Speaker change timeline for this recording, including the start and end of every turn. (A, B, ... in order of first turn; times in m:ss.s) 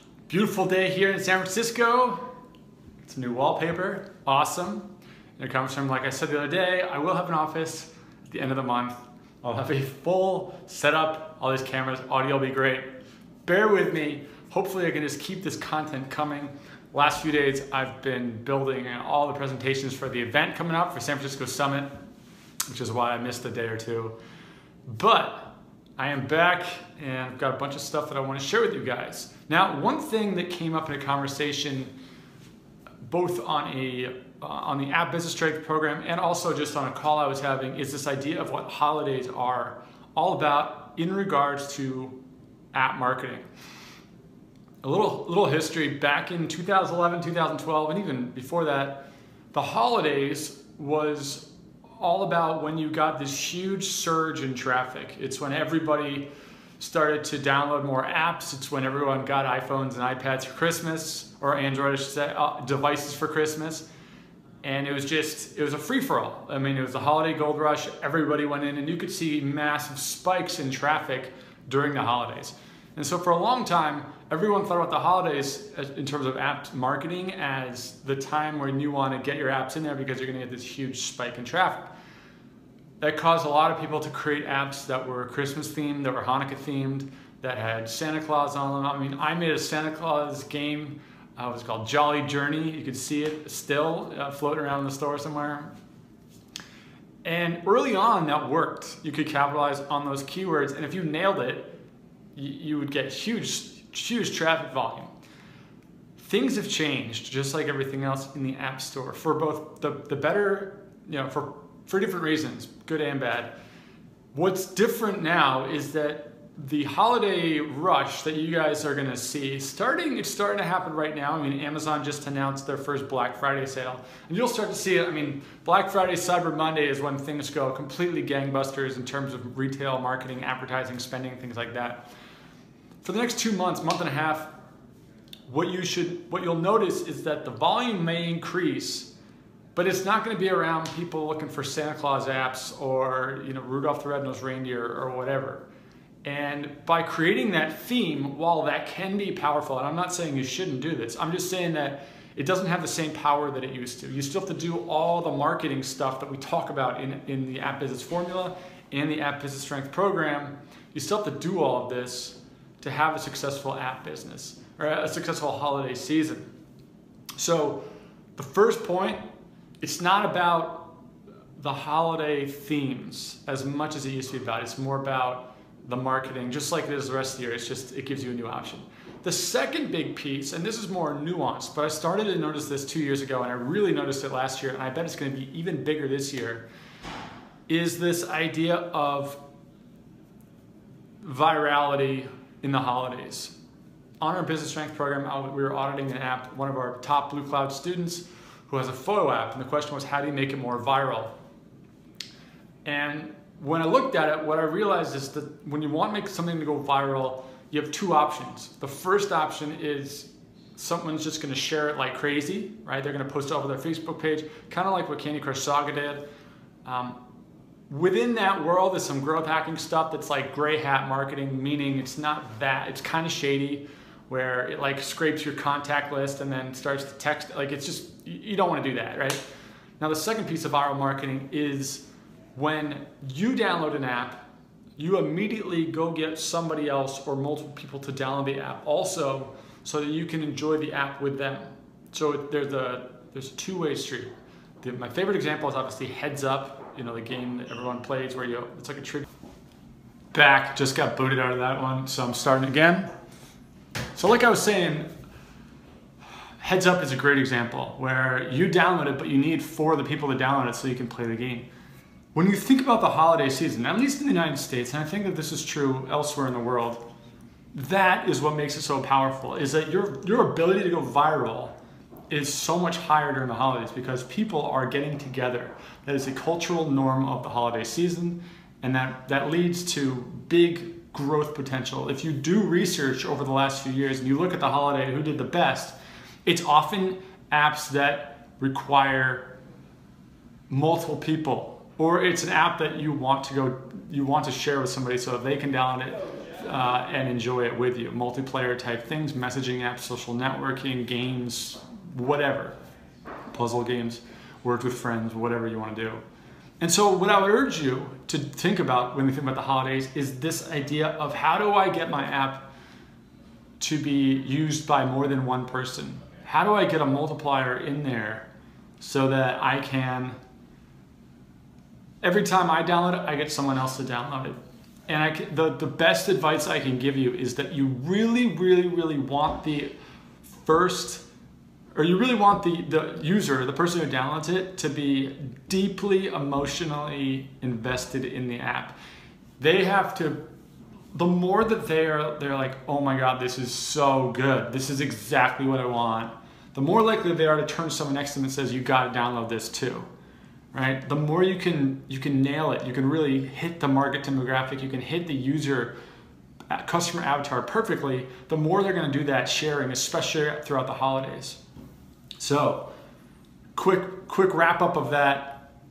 0:00.3-0:02.2 A
0:03.0-0:21.9 A
0:22.7-0:24.2 A
0:24.9-0:31.9 A
0:33.0-0:42.2 A
0:42.7-0:43.5 A
0:44.8-0:56.3 A
0:56.8-1:03.9 A
1:04.6-1:21.9 A
1:23.0-1:35.7 A
1:37.2-1:41.7 A
1:42.3-1:45.1 A
1:46.2-1:53.5 A
1:54.3-2:12.1 A
2:13.0-2:14.5 A
2:15.5-2:19.1 A
2:19.7-2:25.6 A
2:26.2-2:46.5 A
2:47.4-2:47.8 A
2:48.4-2:49.2 A
2:49.8-2:50.9 A
2:51.6-3:06.6 A
3:07.7-3:09.4 A
3:11.2-3:13.5 A
3:14.2-3:21.3 A
3:22.8-3:36.3 A
3:36.8-3:37.2 A
3:37.9-3:49.4 A
3:50.0-3:54.4 A
3:55.0-4:04.3 A
4:04.8-4:09.2 A
4:10.3-4:13.1 A
4:14.1-4:15.1 A
4:16.6-4:21.7 A
4:22.3-4:27.0 A
4:27.7-4:31.8 A
4:32.3-4:49.6 A
4:50.7-5:02.8 A
5:03.5-5:06.2 A
5:06.8-5:12.7 A
5:13.8-5:18.5 A
5:19.0-5:20.4 A
5:22.2-5:29.9 A
5:30.5-5:31.2 A
5:31.9-5:38.9 A
5:39.6-5:40.4 A
5:41.1-5:50.1 A
5:50.7-5:55.9 A
5:56.7-6:01.6 A
6:02.4-6:02.9 A
6:03.7-6:05.7 A